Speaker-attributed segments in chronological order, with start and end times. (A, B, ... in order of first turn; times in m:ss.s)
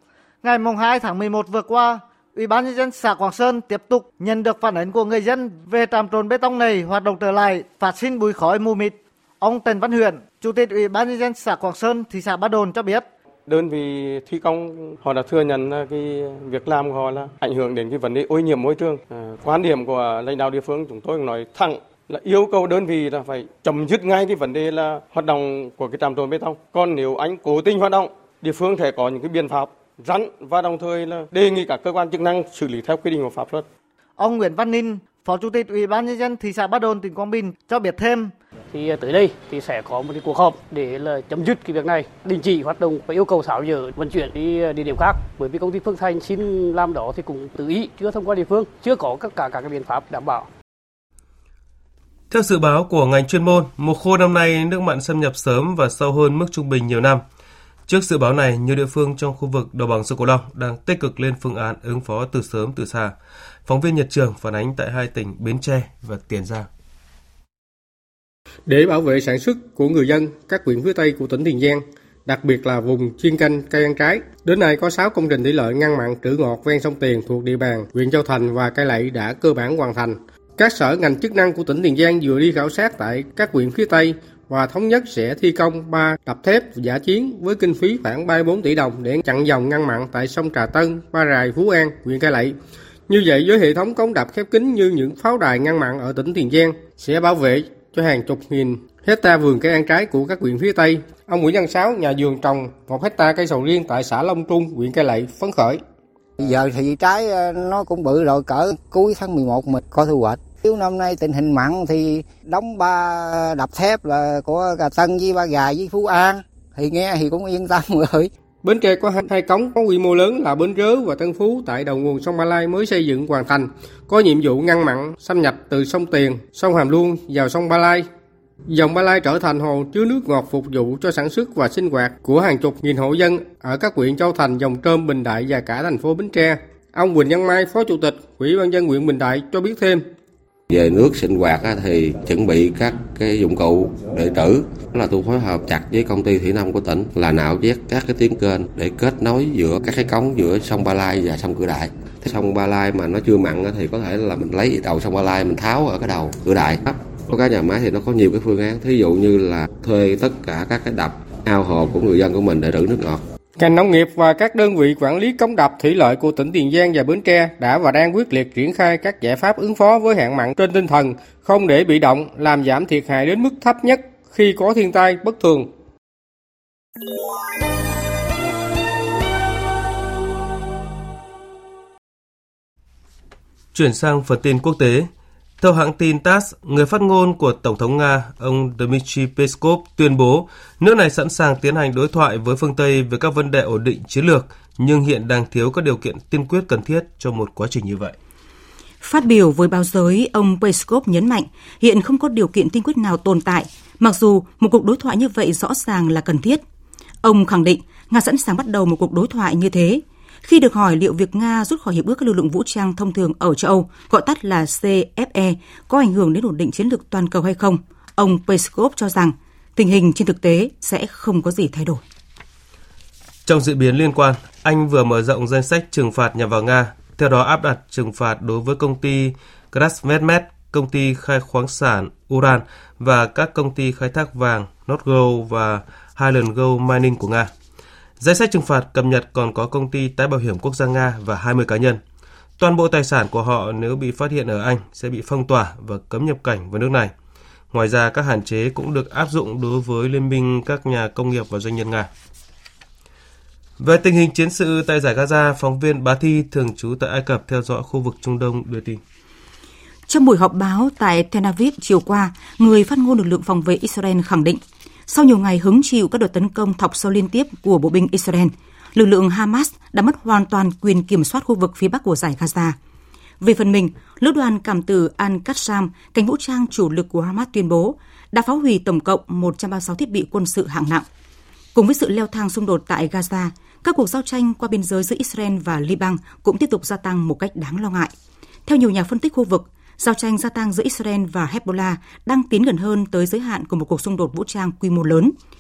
0:00.4-0:13.0 A
0:13.5-0:33.6 B
0:34.2-0:38.3 A
0:38.7-0:50.5 C
0:52.3-0:57.2 D
0:57.9-1:03.1 D
1:03.6-1:06.7 D
1:08.7-1:32.6 E
1:33.1-1:45.8 E
1:46.4-1:58.3 F
1:58.6-2:08.0 E
2:08.7-2:20.0 E
2:20.7-2:43.2 G
2:43.6-2:55.7 E
3:03.7-3:05.1 D
3:05.6-3:18.2 D
3:19.0-3:26.6 H
3:27.2-3:42.0 H
3:43.4-3:57.5 D
3:58.2-4:02.0 D
4:02.6-4:07.1 D
4:07.7-4:12.1 D
4:13.8-4:19.0 D
4:20.1-4:32.8 H
4:33.4-4:41.0 H
4:41.7-4:48.1 H
4:48.7-4:55.3 H